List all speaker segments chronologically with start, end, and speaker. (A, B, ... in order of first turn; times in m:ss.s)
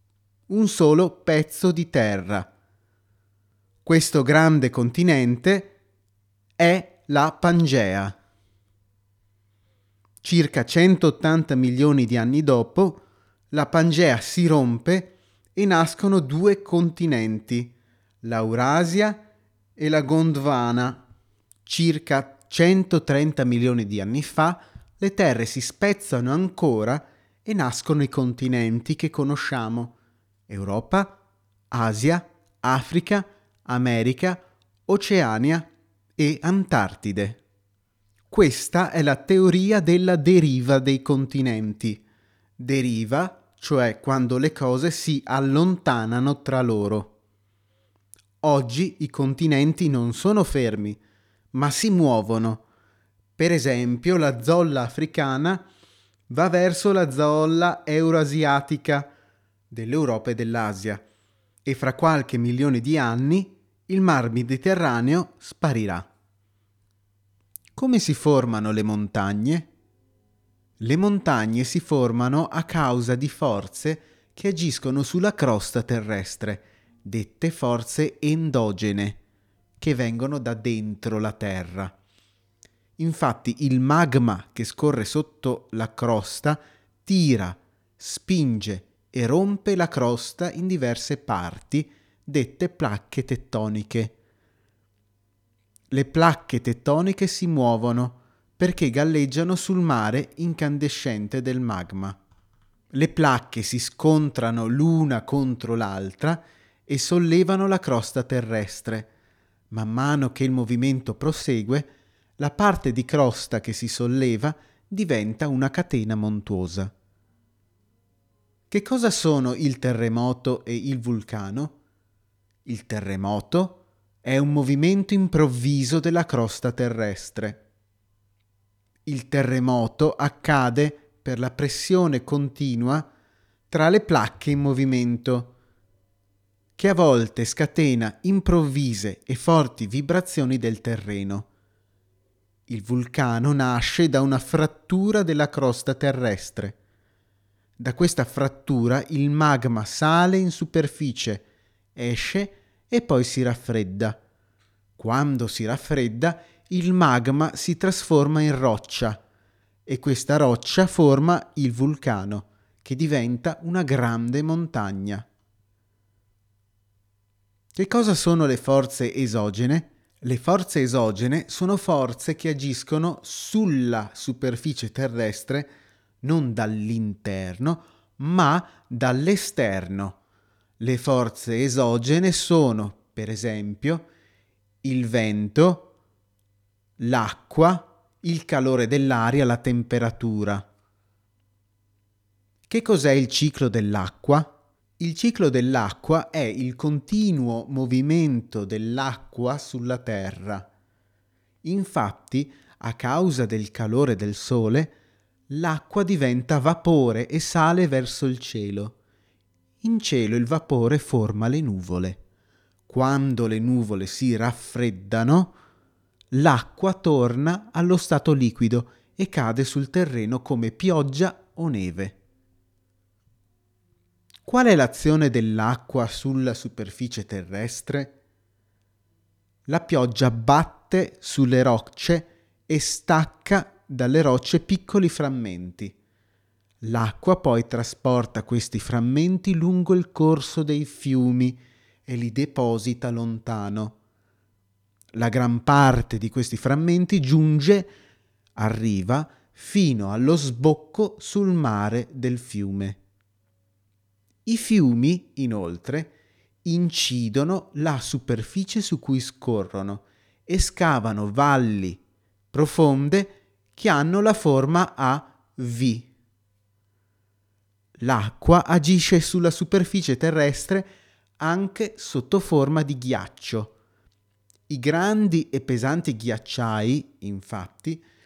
0:00.5-0:02.5 A
0:03.8-0:05.8 A
0:06.6-0:08.2 A
0:10.2-0:19.2 A
0:19.8-0:21.0 A
0:21.6-0:29.9 A
0:30.5-0:31.2 A
0:31.7-0:37.4 A
0:38.3-0:42.0 A
0:42.6-0:47.1 A
0:48.4-0:51.0 A
0:51.5-0:52.6 A
0:53.4-0:55.6 A
0:56.3-0:59.1 A
0:59.7-1:01.0 A
1:01.6-1:06.1 A
1:07.7-1:09.7 A
1:10.8-1:19.2 A
1:19.8-1:21.9 A
1:23.0-1:34.2 A
1:35.9-1:42.2 A
1:42.9-1:49.1 A
1:49.7-1:56.9 A
1:58.7-2:01.8 A
2:02.6-2:07.6 A
2:09.0-2:13.1 A
2:13.7-2:15.5 A
2:16.8-2:21.5 A
2:22.7-2:26.8 A
2:27.8-2:34.2 A
2:35.0-2:39.2 A
2:39.8-2:45.2 A
2:47.7-2:55.7 A
2:56.2-3:00.2 A
3:00.8-3:04.1 A
3:04.8-3:05.9 A
3:07.0-3:10.7 A
3:12.7-3:20.7 A
3:21.6-3:24.9 A
3:25.5-3:29.0 A
3:29.8-3:32.2 A
3:32.9-3:35.6 A
3:36.3-3:42.2 A
3:44.4-3:48.2 A
3:49.7-3:56.0 A
3:56.8-4:04.0 A
4:05.1-4:07.9 A
4:08.6-4:13.0 A
4:14.4-4:16.1 A
4:16.6-4:22.0 A
4:22.5-4:26.1 A
4:28.0-4:33.7 A
4:34.7-4:38.0 A